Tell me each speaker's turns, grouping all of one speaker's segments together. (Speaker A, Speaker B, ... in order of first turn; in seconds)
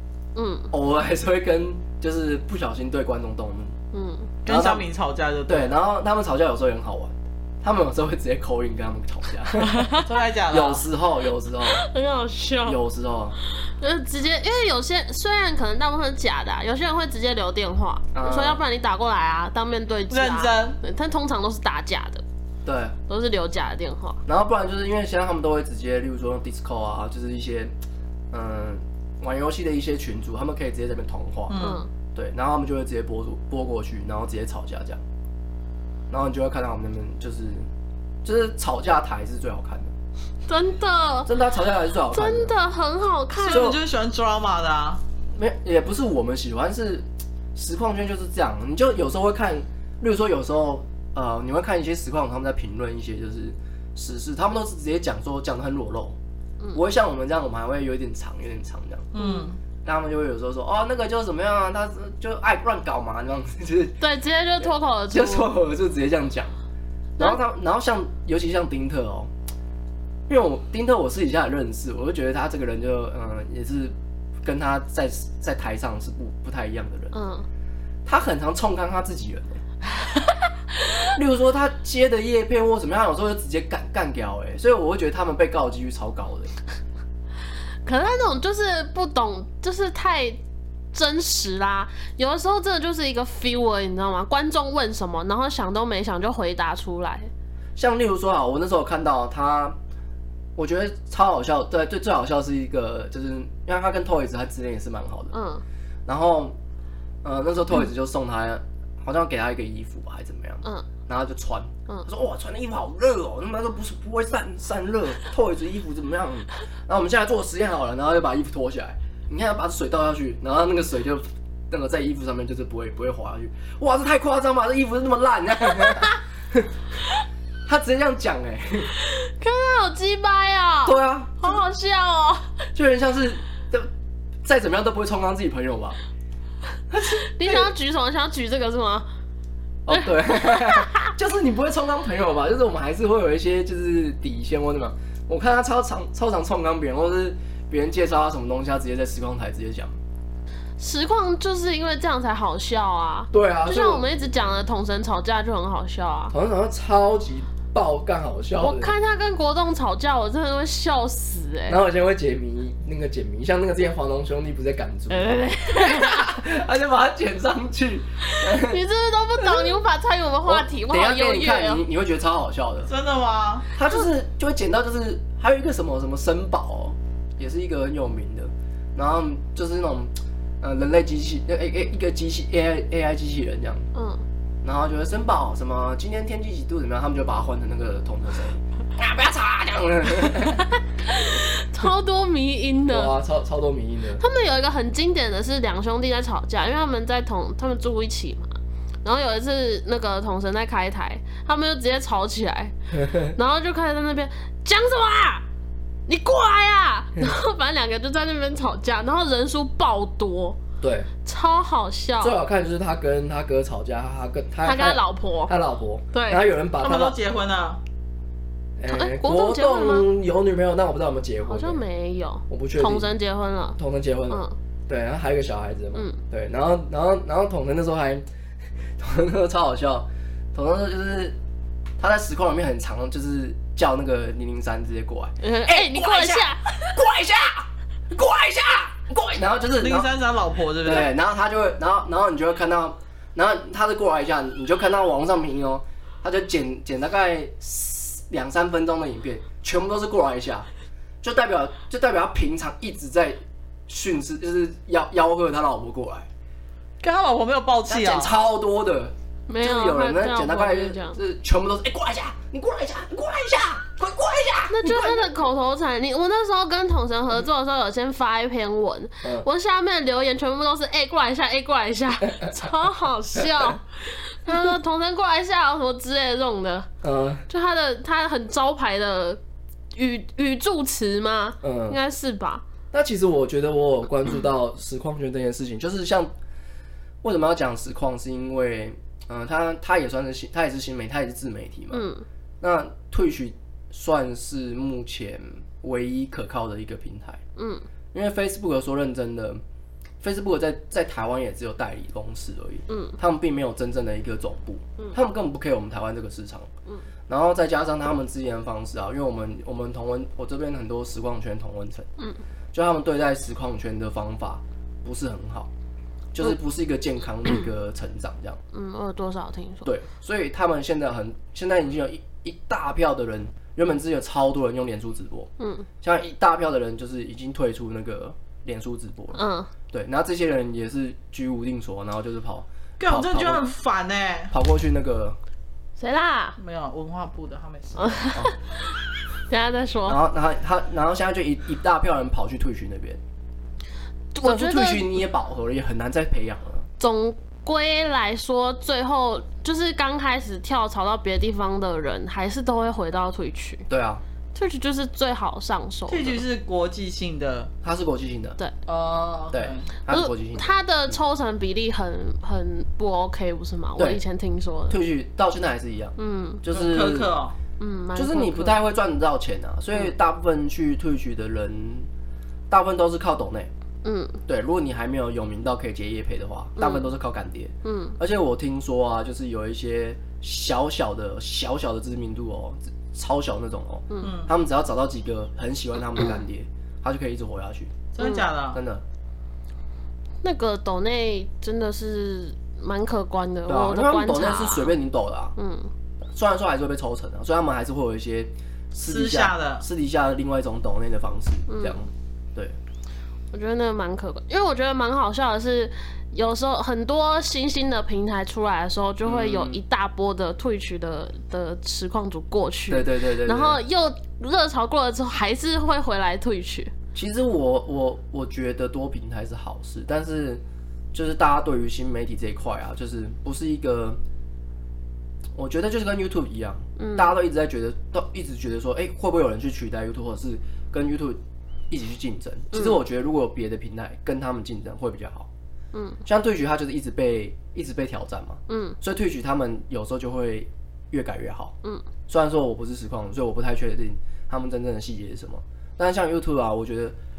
Speaker A: 0.4-0.7, 3.9-4.3, 9.6-10.1, 11.7-12.8, 13.5-22.2, 23.1-24.2, 31.6-31.9, 40.5-41.3, 42.1-43.7, 59.2-59.5, 64.0-65.5, 77.1-77.5, 87.8-90.4, 90.9-97.3, 105.3-105.6, 128.9-132.6, 137.2-139.1, 139.9-141.1, 150.8-156.3, 158.6-161.8, 165.1-166.3, 168.2-171.8, 183.9-184.2, 191.0-193.1, 194.2-205.4, 206.1-210.6, 211.2-212.4, 214.7-215.5, 216.1-216.4, 218.9-220.1, 221.5-223.8, 224.3-224.6, 225.9-226.2, 235.4-237.0, 259.5-261.2, 264.7-276.9, 277.5-279.4, 279.9-282.6, 291.9-292.2, 297.6-297.9, 302.9-303.2, 318.7-319.9, 325.6-325.9, 329.3-329.7, 336.0-336.6, 338.0-338.8, 339.5-340.2, 344.4-345.1, 347.0-353.9, 354.5-356.4, 360.1-365.0, 366.2-366.6, 367.8-368.8, 374.0-374.4, 376.8-377.1, 377.8-378.2, 388.2-388.5, 390.4-394.9, 395.6-395.9, 401.7-402.0, 403.5-416.9, 427.0-427.3, 432.7-433.0, 435.9-436.2, 438.7-439.0
Speaker B: 0.7-3.8, 4.5-4.9, 5.5-9.9, 10.5-11.8, 12.7-13.4, 18.1-18.6, 22.6-23.0, 24.3-27.7, 28.3-31.6, 32.1-35.0, 36.1-37.7, 38.2-39.9, 41.3-42.5, 43.5-43.8, 45.3-56.2, 56.7-59.1, 59.8-64.0, 64.6-66.6, 67.2-69.3, 70.3-77.1, 78.1-79.6, 81.1-86.5, 97.8-99.8, 100.6-105.3, 106.1-106.6, 107.2-126.7, 127.7-128.9, 130.8-131.6, 132.8-133.9, 134.4-136.0, 136.9-137.7, 139.8-150.0, 153.3-154.1, 156.3-159.0, 161.7-168.8, 169.4-169.7, 170.4-172.9, 173.7-183.9, 184.6-190.7, 192.9-194.2, 202.9-203.3, 210.8-211.1, 212.2-217.2, 218.8-221.8, 222.5-223.1, 223.8-228.3, 229.0-231.4, 232.0-240.1, 240.8-250.7, 251.2-256.3, 257.9-265.3, 277.0-277.5, 281.6-282.0, 282.9-286.3, 287.2-292.1, 292.6-297.4, 298.1-299.6, 300.2-306.7, 307.3-312.1, 312.7-315.7, 316.3-318.6, 319.8-325.5, 326.0-333.6, 334.5-335.4, 340.1-343.2, 344.4-346.9, 353.9-354.2, 357.8-358.6, 359.5-361.2, 364.9-367.3, 368.2-372.1, 372.7-373.7, 374.5-388.1, 388.7-389.0, 393.7-395.6, 396.3-402.8, 409.2-409.8, 412.9-413.8, 417.1-420.6, 421.1-424.2, 425.5-431.4, 431.9-435.5, 436.2-441.8, 442.3-447.2
Speaker C: 4.5-5.8, 9.9-10.9, 20.1-20.8, 31.5-31.8, 43.4-45.0, 59.1-59.6, 172.9-173.7, 216.8-217.8, 239.8-241.1, 257.0-258.4, 333.0-334.5, 336.6-338.4, 356.1-357.7, 358.9-359.9, 366.7-367.6, 384.2-384.5, 388.1-388.8, 399.0-399.9